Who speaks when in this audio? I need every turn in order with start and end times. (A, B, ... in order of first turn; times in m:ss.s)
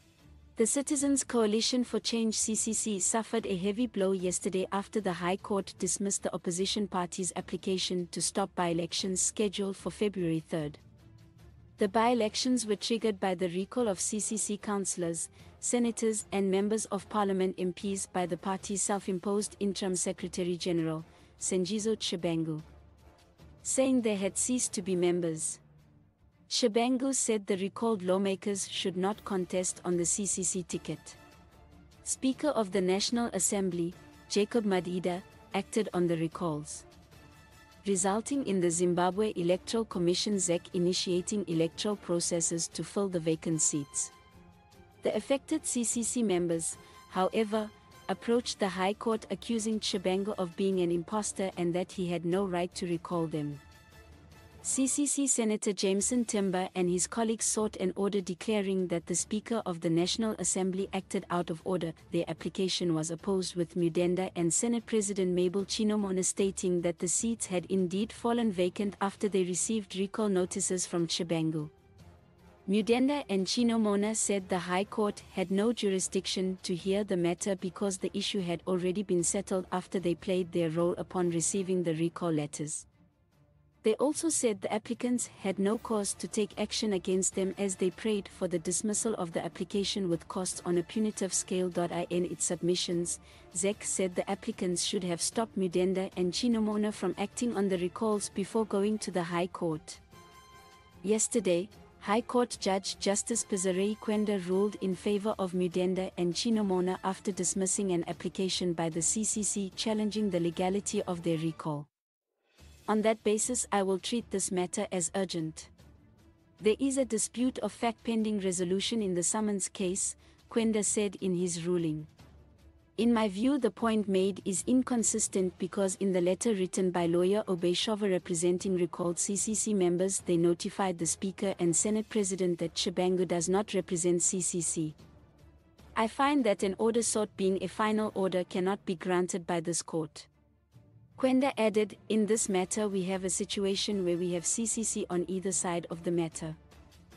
0:00.6-0:10.8 A
0:11.8-0:22.7 A
0:23.6-0:25.6 A
0:26.5-0:31.2 A
0:32.0-0:36.9 A
0:37.8-0:44.1 A
0:45.0-0:53.6 A
0:54.6-1:11.7 A
1:12.7-1:22.9 A
1:23.8-1:40.0 A
1:41.0-1:51.9 A
1:52.9-1:55.7 A
1:56.6-2:02.1 A
2:03.0-2:15.0 A
2:16.0-2:20.3 A
2:21.2-2:26.6 A